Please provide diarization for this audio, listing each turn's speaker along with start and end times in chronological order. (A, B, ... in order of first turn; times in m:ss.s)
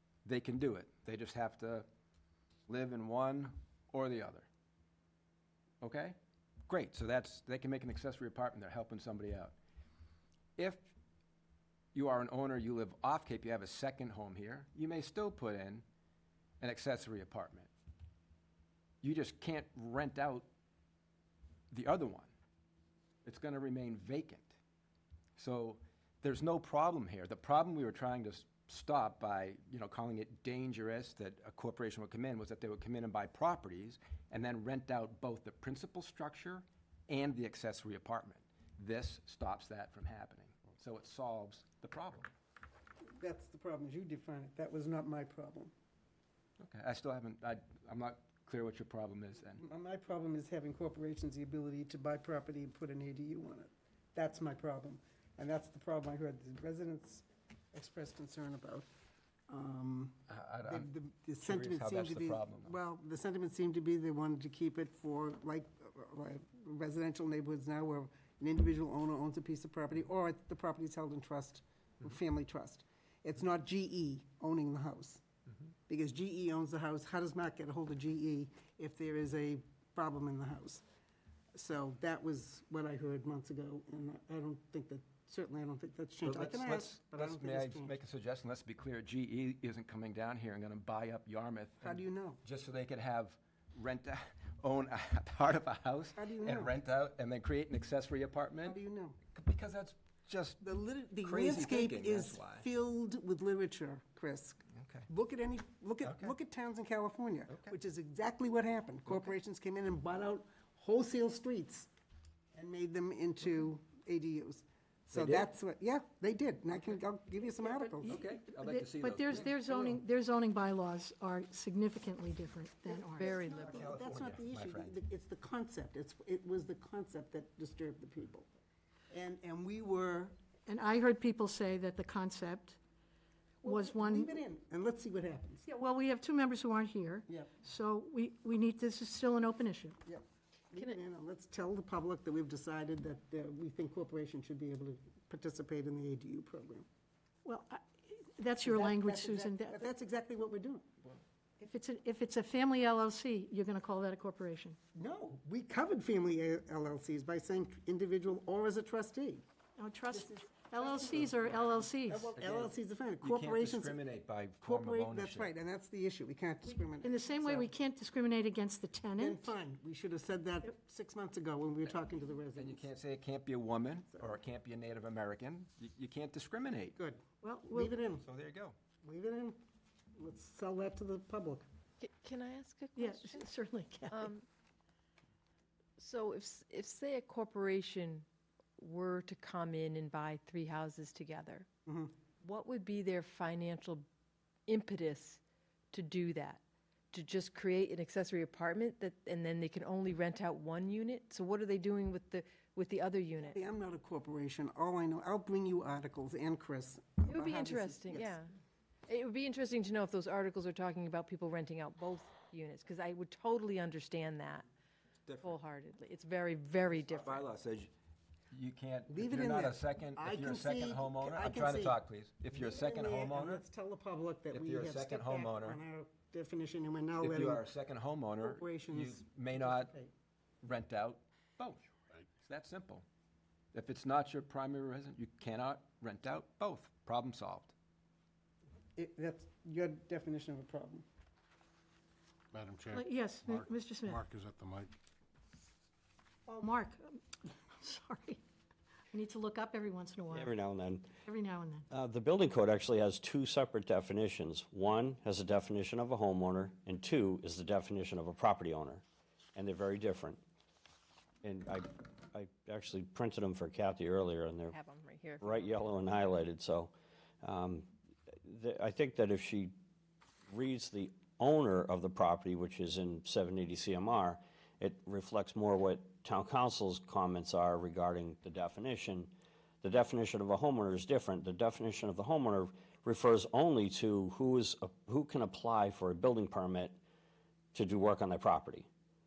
0:00.2-0:01.9 A
0:02.7-0:04.5 A
0:05.8-0:06.2 A
0:06.7-0:09.6 A
0:10.6-0:10.9 A
0:11.9-0:15.8 A
0:16.6-0:17.7 A
0:19.0-0:20.5 A
0:21.7-0:22.3 A
0:23.2-0:24.6 A
0:25.4-0:42.3 A
0:43.2-0:45.7 B
0:46.6-0:49.6 A
0:49.6-0:58.9 B
0:59.5-1:15.2 B
1:00.3-1:02.8 A
1:15.9-1:20.8 B
1:21.6-1:28.0 B
1:26.2-1:38.8 A
1:31.8-1:32.4 B
1:36.2-1:36.8 B
1:38.6-1:39.2 B
1:39.3-1:40.6 A
1:40.6-1:51.9 B
1:41.2-1:42.7 A
1:44.8-1:45.1 A
1:46.0-1:46.3 A
1:52.5-1:58.2 B
1:55.1-1:55.5 A
1:57.6-2:00.0 A
1:58.1-2:03.4 C
2:02.9-2:08.5 B
2:03.0-2:04.0 D
2:03.5-2:05.0 A
2:09.1-2:10.4 B
2:10.7-2:12.8 C
2:13.6-2:14.4 C
2:13.6-2:15.6 B
2:15.7-2:20.0 C
2:17.3-2:17.5 B
2:20.0-2:26.9 B
2:27.4-2:29.9 C
2:28.6-2:30.9 B
2:31.6-2:34.8 C
2:34.9-2:39.4 B
2:39.8-2:42.3 C
2:40.1-2:44.0 B
2:42.4-2:45.5 A
2:44.6-2:47.7 B
2:46.7-2:49.5 C
2:49.2-2:52.9 B
2:52.6-2:57.0 A
2:57.0-2:58.2 B
2:57.4-2:58.0 C
2:58.2-2:58.8 A
2:59.0-2:59.6 B
3:00.2-3:01.7 B
3:02.0-3:03.5 D
3:03.0-3:04.3 C
3:04.1-3:04.5 D
3:06.0-3:08.2 D
3:08.8-3:11.7 D
3:11.9-3:12.1 B
3:12.4-3:14.0 D
3:14.7-3:15.4 D
3:15.9-3:23.6 D
3:23.4-3:28.4 B
3:27.2-3:28.5 D
3:29.1-3:34.7 D
3:35.3-3:35.6 A
3:35.4-3:37.5 D
3:37.0-3:37.9 A
3:38.5-3:43.6 A
3:39.1-3:42.0 B
3:42.5-3:47.6 B
3:44.5-3:45.8 A
3:47.2-3:49.9 A
3:48.4-3:50.1 B
3:50.6-3:51.8 A
3:52.4-3:53.0 A
3:53.7-3:57.7 A
3:59.0-4:01.0 B
4:02.5-4:05.0 E
4:02.9-4:04.3 C
4:06.5-4:08.4 C
4:09.1-4:10.5 C
4:10.3-4:11.1 F
4:11.3-4:11.8 C
4:11.9-4:19.0 F
4:19.6-4:20.4 F
4:21.4-4:24.8 F
4:24.7-4:25.7 D
4:25.4-4:27.9 F
4:28.4-4:29.7 F
4:30.5-4:47.0 F
4:47.7-4:48.9 F